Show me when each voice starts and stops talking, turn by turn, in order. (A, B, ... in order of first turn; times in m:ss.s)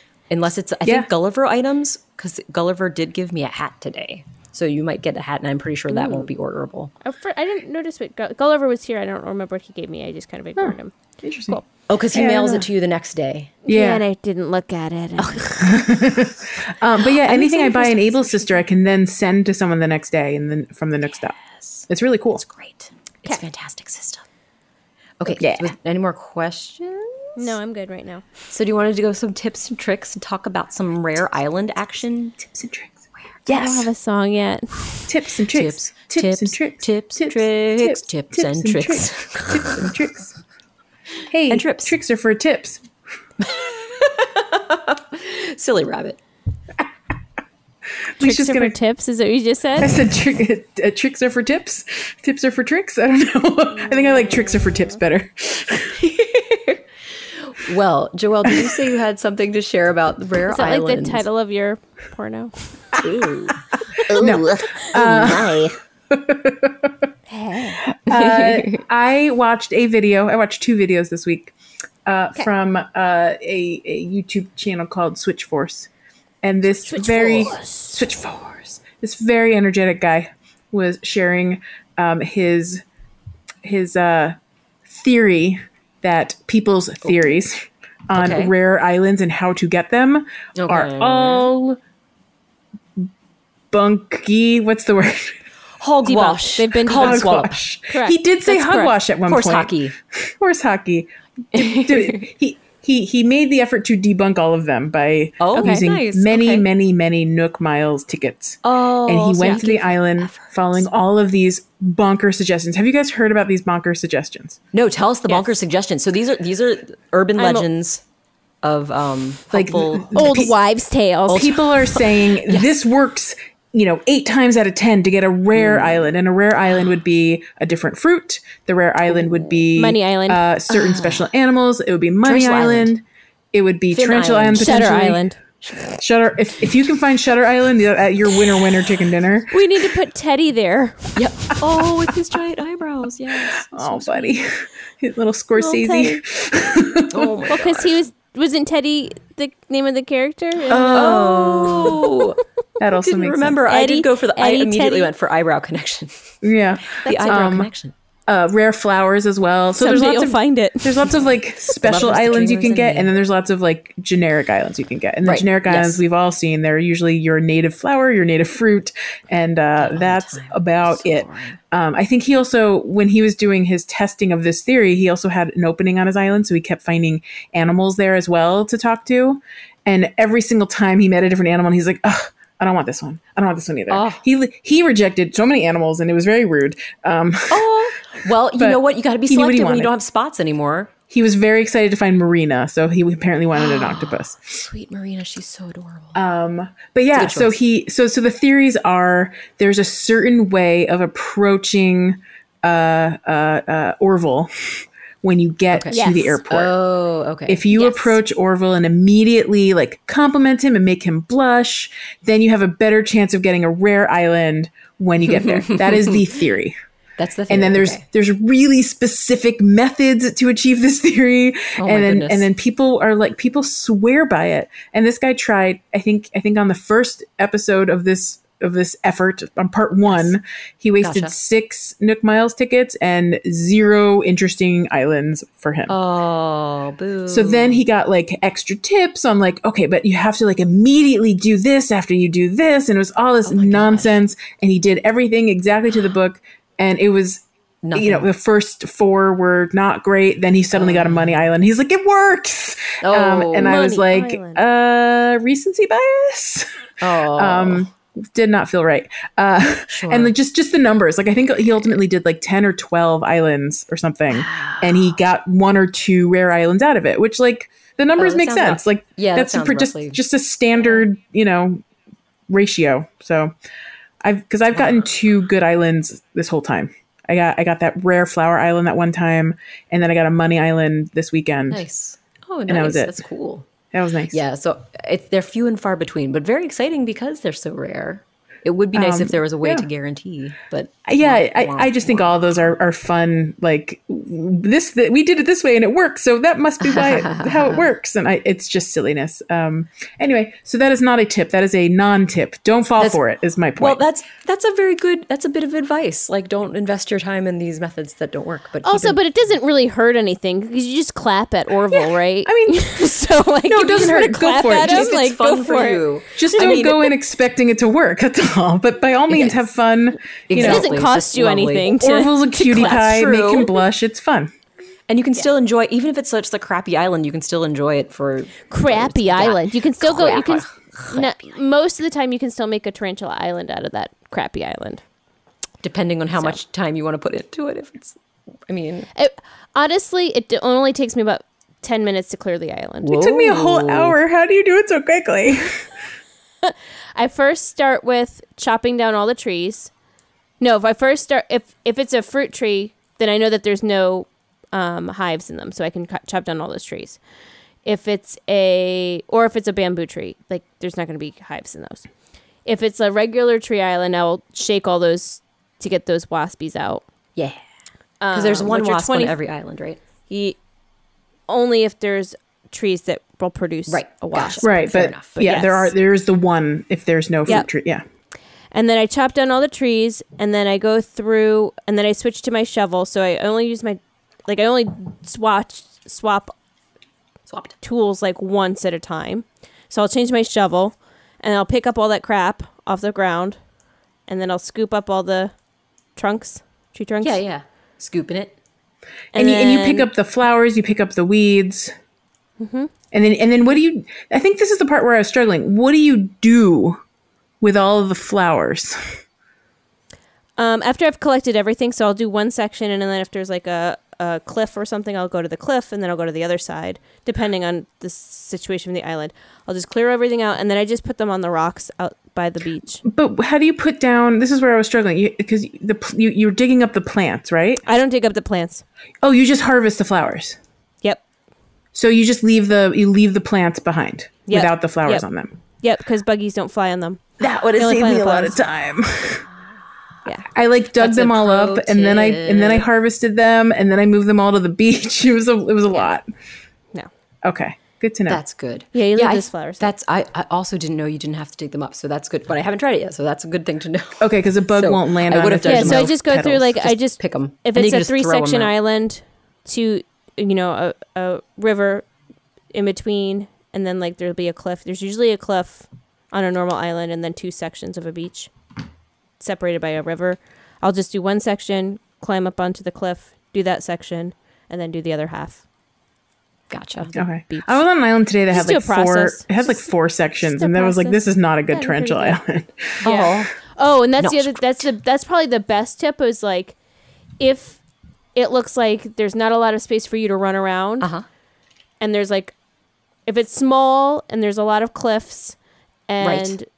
0:00.3-0:06.9 A
0:05.9-0:06.2 B
0:07.0-0:11.6 B
0:10.6-0:11.6 C
0:11.9-0:13.5 A
0:12.1-0:12.7 C
0:13.6-0:15.9 B
0:13.7-0:14.0 C
0:15.2-0:15.5 A
0:15.6-0:21.4 C
0:17.2-0:18.6 B
0:21.4-0:24.2 A
0:21.9-0:22.4 C
0:25.2-0:27.5 A
0:25.4-0:25.7 C
0:27.4-0:28.2 B
0:28.5-0:32.4 A
0:32.4-0:33.9 C
0:33.5-0:35.1 B
0:35.1-0:40.4 C
0:35.5-0:39.8 A
0:41.3-0:42.8 C
0:41.5-0:41.9 A
0:43.4-0:46.2 A
0:48.2-0:48.7 C
0:48.2-0:49.9 B
0:49.8-0:56.1 C
0:53.8-0:55.0 B
0:56.0-1:01.2 A
0:58.5-0:58.8 C
1:00.5-1:02.5 B
1:03.0-1:05.7 A
1:04.1-1:04.9 B
1:04.1-1:06.9 C
1:07.3-1:07.8 B
1:07.8-1:11.5 C
1:08.1-1:08.8 A
1:12.0-1:15.9 C
1:16.4-1:22.8 C
1:16.9-1:18.0 B
1:23.6-1:31.8 C
1:28.1-1:28.5 A
1:30.6-1:31.5 A
1:33.7-1:35.4 C
1:35.8-1:37.6 A
1:36.0-1:39.0 B
1:36.9-1:54.6 C
1:39.3-1:39.9 A
1:41.5-1:42.3 A
1:45.4-1:46.7 A
1:45.5-1:45.9 B
1:48.6-1:50.8 A
1:54.7-1:58.0 A
1:57.4-1:57.7 B
1:58.6-2:00.5 A
1:59.5-2:00.5 C
2:00.1-2:01.5 B
2:01.3-2:13.0 C
2:01.3-2:02.8 A
2:05.5-2:06.1 A
2:09.7-2:10.4 B
2:10.7-2:11.3 A
2:12.2-2:12.9 A
2:13.5-2:15.2 C
2:13.9-2:14.8 A
2:14.6-2:15.4 B
2:15.6-2:16.0 A
2:16.0-2:19.6 C
2:19.5-2:21.2 B
2:21.2-2:24.3 A
2:23.6-2:27.3 C
2:25.6-2:26.2 B
2:27.1-2:28.0 A
2:27.5-2:32.3 B
2:30.7-2:31.2 C
2:30.8-2:32.4 A
2:32.8-2:33.6 C
2:32.9-2:36.3 A
2:33.7-2:35.1 B
2:36.4-2:37.7 C
2:36.9-2:37.9 A
2:37.0-2:37.4 B
2:38.3-3:07.7 C
2:39.8-2:41.2 B
2:41.8-2:43.1 A
2:45.2-2:46.0 A
2:49.8-2:51.6 A
3:03.9-3:04.2 A
3:07.5-3:10.9 A
3:08.6-3:09.9 C
3:11.1-3:14.6 C
3:13.5-3:16.2 A
3:16.1-3:26.7 C
3:17.1-3:17.6 A
3:25.7-3:28.1 A
3:25.9-3:26.4 B
3:27.5-3:36.8 C
3:35.3-3:36.2 A
3:37.2-3:38.0 A
3:37.5-3:55.9 C
3:41.8-3:42.5 A
3:51.0-3:51.3 A
3:55.9-3:57.8 A
3:57.3-4:16.7 C
4:03.4-4:04.2 A
4:07.8-4:08.3 A
4:10.7-4:11.4 A
4:13.0-4:13.8 A
4:13.6-4:14.6 B
4:17.0-4:17.9 A
4:17.3-4:31.8 C
4:19.9-4:20.3 A
4:24.3-4:25.2 A
4:28.2-4:30.2 A
4:32.5-4:33.5 C
4:34.2-4:41.8 C
4:34.7-4:35.0 A
4:41.7-4:43.7 A
4:42.7-4:43.2 C
4:43.9-4:44.4 C
4:44.3-4:52.7 A
4:48.9-4:49.8 C
4:51.0-5:04.0 C
4:56.8-4:57.8 A
5:03.8-5:09.2 A
5:08.8-5:17.0 B
5:11.9-5:13.0 C
5:13.7-5:15.1 C
5:14.2-5:17.1 A
5:16.4-5:20.9 C
5:19.3-5:19.6 A
5:20.5-5:22.0 A
5:20.5-5:23.0 B
5:21.9-5:24.5 C
5:22.5-5:23.8 A
5:25.1-5:31.3 A
5:28.7-5:35.0 B
5:35.8-5:39.1 A
5:39.1-5:43.2 B
5:43.0-5:44.2 A
5:43.1-5:45.9 C
5:46.6-5:49.9 B
5:50.6-5:57.2 B
5:57.8-6:02.0 B
6:02.6-6:07.0 B
6:08.2-6:09.4 B
6:08.3-6:10.0 A
6:10.3-6:10.6 B
6:11.5-6:14.8 B
6:13.9-6:15.4 A
6:14.6-6:18.0 C
6:15.3-6:15.9 B
6:18.7-6:26.5 B
6:27.5-6:27.8 A
6:27.8-6:33.6 B
6:34.3-6:35.5 B
6:36.2-6:37.4 B
6:37.2-6:38.6 A
6:39.3-6:41.9 C
6:39.3-6:40.1 B
6:42.6-6:42.9 B
6:43.1-6:47.0 C
6:47.6-6:49.2 C
6:50.6-7:03.0 B
7:03.0-7:07.8 C
7:07.8-7:08.8 B
7:09.2-7:10.6 C
7:11.9-7:15.5 C
7:14.5-7:15.2 B
7:15.8-7:17.2 B
7:17.4-7:19.4 C
7:17.8-7:18.6 B
7:20.5-7:26.2 C
7:21.0-7:22.9 A
7:27.4-7:28.4 C
7:28.3-7:38.7 A
7:28.9-7:29.9 B
7:34.2-7:36.7 C
7:35.6-7:42.0 B
7:42.7-7:48.5 B
7:49.4-7:55.6 B
7:56.7-7:57.1 A
7:57.0-7:57.8 B
7:57.1-8:03.0 C
7:58.5-8:02.4 B
8:03.0-8:03.5 A
8:03.0-8:06.8 B
8:04.2-8:04.9 A
8:07.4-8:07.8 B
8:08.3-8:11.1 B
8:12.0-8:12.5 B
8:13.2-8:15.6 B
8:16.1-8:16.6 B
8:16.2-8:16.5 A